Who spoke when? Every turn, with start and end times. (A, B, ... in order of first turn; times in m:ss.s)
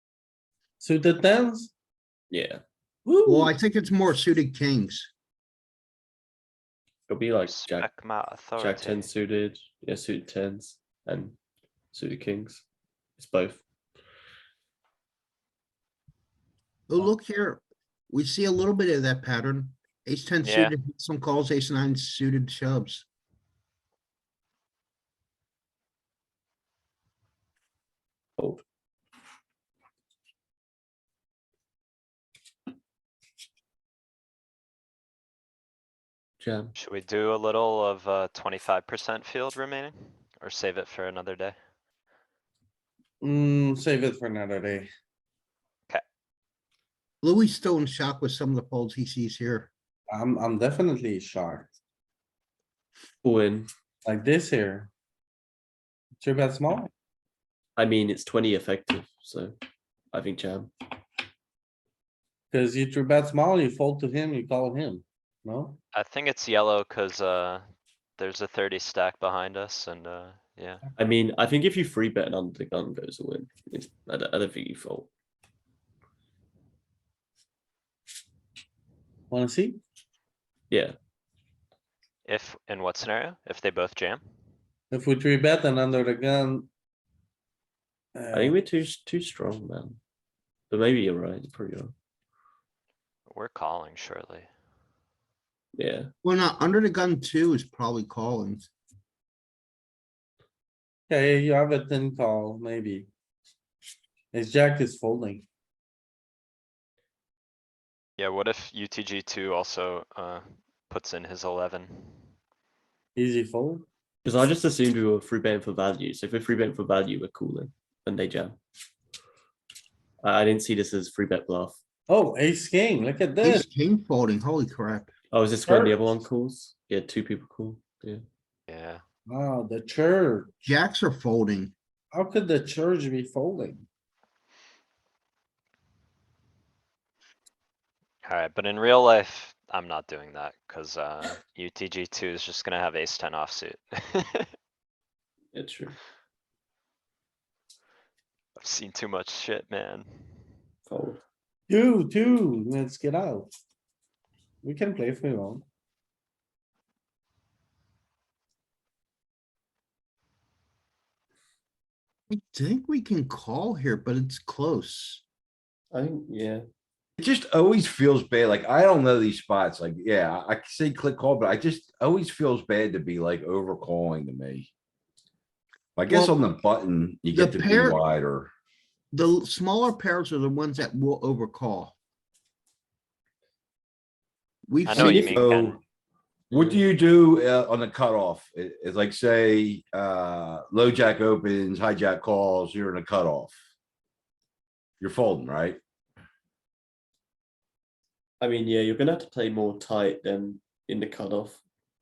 0:00.8-0:01.7 A
0:02.3-0:02.6 B
0:03.0-0:03.5 A
0:03.2-0:05.1 C
0:07.1-0:07.9 B
0:07.4-0:09.1 D
0:08.6-0:11.4 B
0:11.9-0:12.6 B
0:13.2-0:13.6 B
0:16.9-0:23.0 C
0:20.4-0:20.7 D
0:36.4-0:36.7 B
0:36.8-0:41.6 D
0:43.2-0:44.9 A
0:47.2-0:49.7 C
0:50.1-0:51.7 A
0:53.2-0:53.7 B
0:54.0-0:54.9 A
0:56.2-0:56.9 A
0:57.8-0:59.6 B
1:00.1-1:00.7 B
1:02.5-1:05.8 A
1:05.9-1:07.6 D
1:08.2-1:10.8 D
1:11.0-1:15.1 B
1:19.3-1:19.8 A
1:20.7-1:20.9 B
1:22.2-1:24.2 D
1:24.9-1:26.7 A
1:28.1-1:28.6 A
1:28.3-1:30.0 B
1:30.7-1:31.9 B
1:33.3-1:34.5 D
1:35.7-1:36.1 B
1:36.2-1:38.7 C
1:41.1-1:43.1 A
1:44.3-1:45.4 A
1:48.2-1:52.3 D
1:53.2-1:53.8 A
1:54.2-1:58.6 B
2:00.2-2:01.8 B
2:02.1-2:03.7 A
2:03.4-2:05.1 C
2:05.3-2:08.2 B
2:08.7-2:09.0 D
2:09.3-2:10.5 A
2:10.6-2:11.7 C
2:12.1-2:13.8 A
2:18.2-2:24.5 D
2:25.5-2:26.0 B
2:28.6-2:30.5 D
2:30.9-2:31.2 B
2:31.7-2:33.5 A
2:34.6-2:35.6 A
2:42.3-2:45.2 C
2:45.9-2:46.6 B
2:47.2-2:54.7 E
2:56.0-2:58.5 E
2:57.3-2:58.0 C
2:59.1-3:02.0 C
3:04.7-3:05.4 C
3:04.8-3:05.8 D
3:04.9-3:05.2 B
3:05.2-3:05.8 E
3:06.5-3:13.5 E
3:06.6-3:06.8 B
3:15.0-3:15.8 E
3:18.4-3:21.6 B